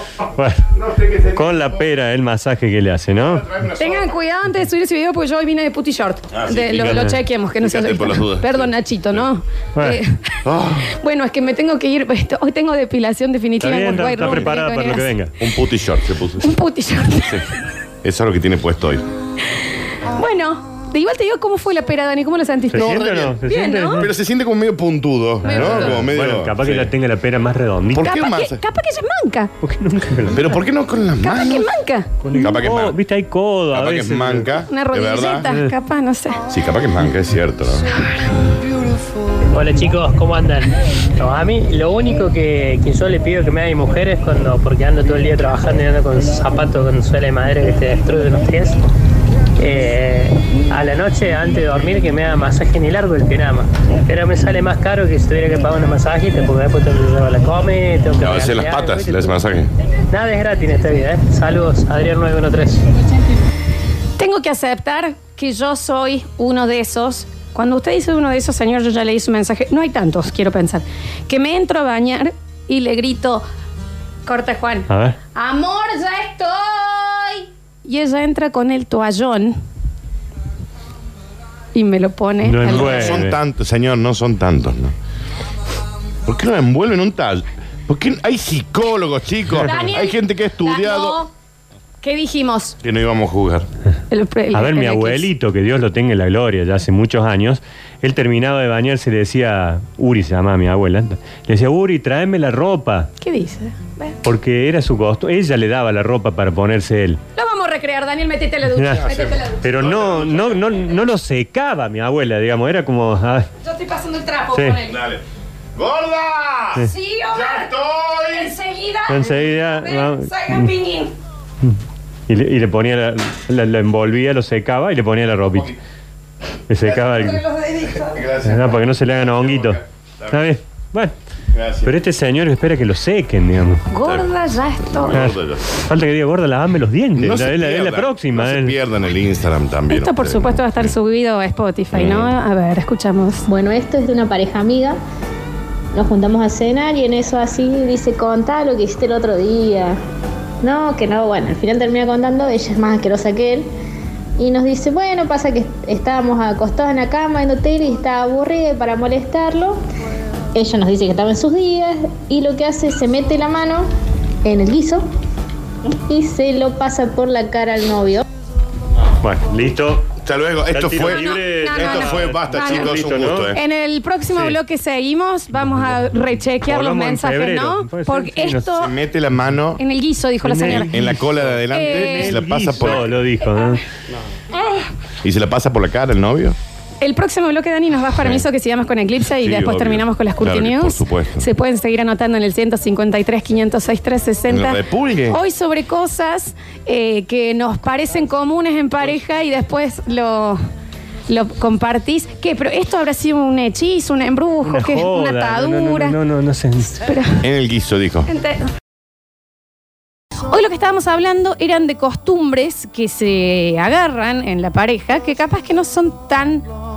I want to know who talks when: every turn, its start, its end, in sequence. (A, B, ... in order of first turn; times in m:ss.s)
0:00.4-0:00.7 A
0:00.8-0:01.6 B
0:01.3-0:03.4 A
0:03.2-0:04.1 B
0:03.8-0:10.2 C
0:06.3-0:09.2 B
0:06.8-0:07.1 A
0:10.4-0:10.9 B
0:10.9-0:15.1 C
0:13.6-0:15.3 A
0:15.4-0:16.5 B
0:16.4-0:17.4 C
0:18.0-0:19.0 B
0:20.2-0:24.0 C
0:22.7-0:24.1 A
0:22.8-0:23.3 B
0:24.0-0:26.9 B
0:25.4-0:26.0 C
0:25.4-0:28.0 A
0:27.9-0:28.6 B
0:28.0-0:29.5 C
0:29.6-0:30.5 A
0:30.3-0:31.7 B
0:31.2-0:32.1 C
0:32.2-0:34.5 A
0:32.3-0:33.0 B
0:33.7-0:35.4 B
0:34.7-0:36.4 C
0:36.5-0:37.8 B
0:39.5-0:48.8 D
0:49.6-0:59.3 D
0:58.2-0:59.7 B
1:00.1-1:02.8 D
1:04.2-1:13.4 C
1:14.2-1:19.6 C
1:14.9-1:15.2 A
1:21.7-1:23.2 C
1:22.4-1:23.4 A
1:22.7-1:24.9 B
1:26.2-1:31.2 B
1:29.6-1:31.3 C
1:32.0-1:32.8 C
1:32.8-1:33.7 B
1:34.1-1:35.3 C
1:34.5-1:43.1 A
1:43.2-1:44.2 C
1:44.2-1:47.2 A
1:47.4-1:49.6 C
1:48.8-1:49.0 A
1:49.0-1:50.6 B
1:49.6-1:53.5 A
1:53.6-1:54.9 C
1:54.5-1:54.8 A
1:54.9-1:55.2 B
1:55.7-1:58.5 B
1:56.8-1:57.7 C
1:58.3-2:01.1 C
1:59.1-2:00.7 A
2:02.3-2:05.7 A
2:06.7-2:07.4 A
2:06.8-2:07.2 B
2:07.2-2:08.1 C
2:08.0-2:10.4 B
2:08.4-2:09.8 A
2:10.3-2:11.1 A
2:11.5-2:11.9 B
2:11.8-2:13.9 A
2:13.9-2:15.2 C
2:14.8-2:15.7 B
2:15.1-2:18.8 A
2:17.2-2:20.9 B
2:19.9-2:23.4 C
2:21.9-2:22.3 B
2:23.5-2:25.0 E
2:25.9-2:30.0 E
2:30.6-2:33.7 E
2:34.4-2:39.8 E
2:40.5-2:43.9 E
2:44.4-2:45.1 E
2:46.1-2:48.2 E
2:49.2-2:50.1 A
2:50.2-2:53.6 B
2:50.7-2:53.5 A
2:51.0-2:52.9 C
2:53.5-2:58.9 C
2:55.5-2:58.8 A
2:58.8-2:59.8 B
2:59.8-3:00.9 C
3:00.4-3:03.8 A
3:00.7-3:03.1 B
3:01.7-3:02.3 C
3:05.2-3:06.6 B
3:07.0-3:20.6 C
3:09.4-3:11.5 B
3:14.5-3:15.4 B
3:21.3-3:26.2 C
3:24.6-3:27.0 A
3:26.9-3:27.4 C
3:27.4-3:28.3 B
3:28.3-3:28.6 C
3:30.5-3:36.6 C